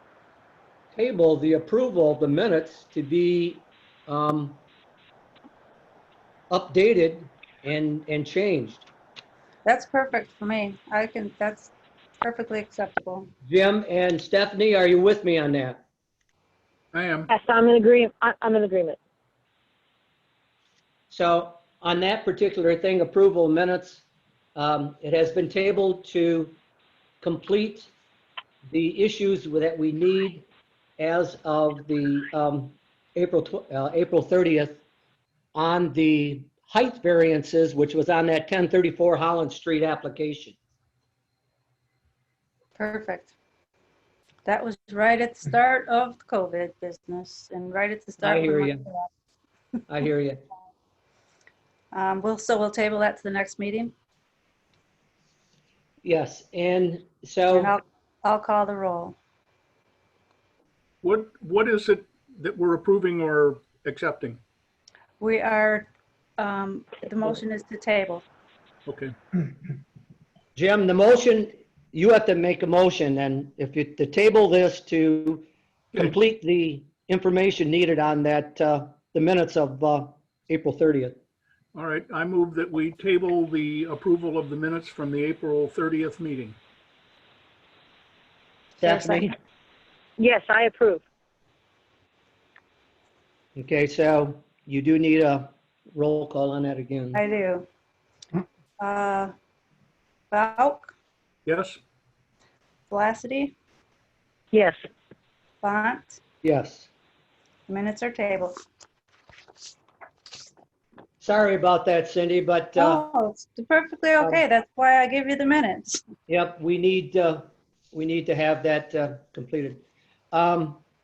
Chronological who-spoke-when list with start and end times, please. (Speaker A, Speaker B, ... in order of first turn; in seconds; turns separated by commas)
Speaker A: 0.9-4.6, Speaker A: 6.5-8.8, Speaker B: 9.6-13.3, Speaker A: 13.4-15.8, Speaker C: 16.9-17.3, Speaker D: 17.3-19.0, Speaker A: 21.1-24.0, Speaker A: 24.6-26.6, Speaker A: 27.2-27.9, Speaker A: 28.7-30.4, Speaker A: 31.0-34.8, Speaker A: 35.5-40.5, Speaker B: 42.8-43.3, Speaker B: 44.4-49.1, Speaker A: 48.2-48.8, Speaker A: 49.9-50.4, Speaker B: 51.9-53.9, Speaker A: 56.0-57.7, Speaker B: 57.5-59.2, Speaker C: 61.0-64.4, Speaker B: 65.2-68.2, Speaker C: 68.9-69.1, Speaker A: 70.5-81.2, Speaker C: 81.7-86.6, Speaker B: 88.8-89.3, Speaker A: 88.8-89.3, Speaker D: 90.2-91.0, Speaker A: 93.5-97.2, Speaker B: 97.1-97.7, Speaker B: 98.8-99.3, Speaker B: 100.3-100.9, Speaker C: 101.5-101.8, Speaker B: 102.9-103.5, Speaker D: 104.5-104.8, Speaker B: 105.6-106.2, Speaker A: 106.4-106.9, Speaker B: 107.7-108.5, Speaker A: 111.2-113.0, Speaker B: 112.8-116.0, Speaker A: 116.3-120.8